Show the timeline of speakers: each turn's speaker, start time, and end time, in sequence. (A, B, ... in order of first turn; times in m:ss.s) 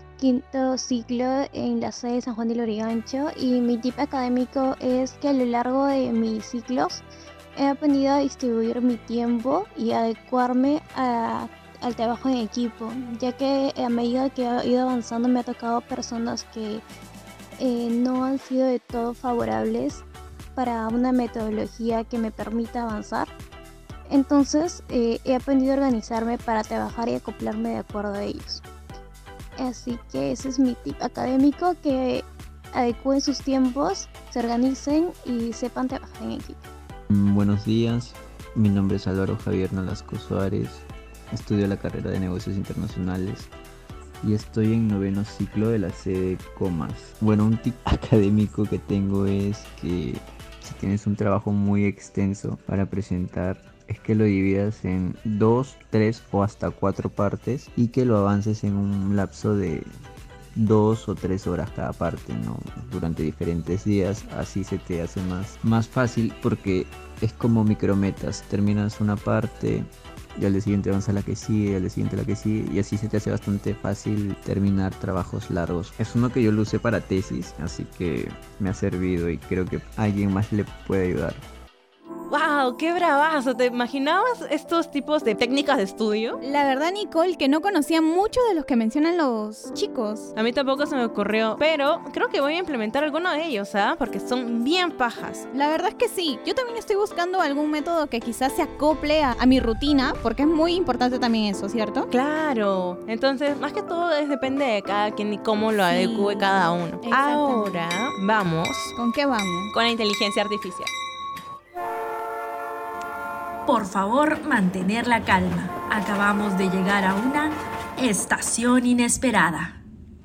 0:00.2-0:16.8 A
0:17.6-0:23.3 A
0:24.1-0:28.6 A
0:29.6-0:36.6 A
0:37.1-0:43.5 B
0:44.2-0:59.9 B
1:00.6-1:21.4 B
1:22.3-1:26.4 C
1:26.4-1:30.3 D
1:30.3-1:35.5 C
1:35.5-1:42.1 D
1:42.1-1:49.0 C
1:45.9-1:47.9 D
1:49.0-1:49.7 D
1:49.7-1:50.9 C
1:53.6-1:59.8 E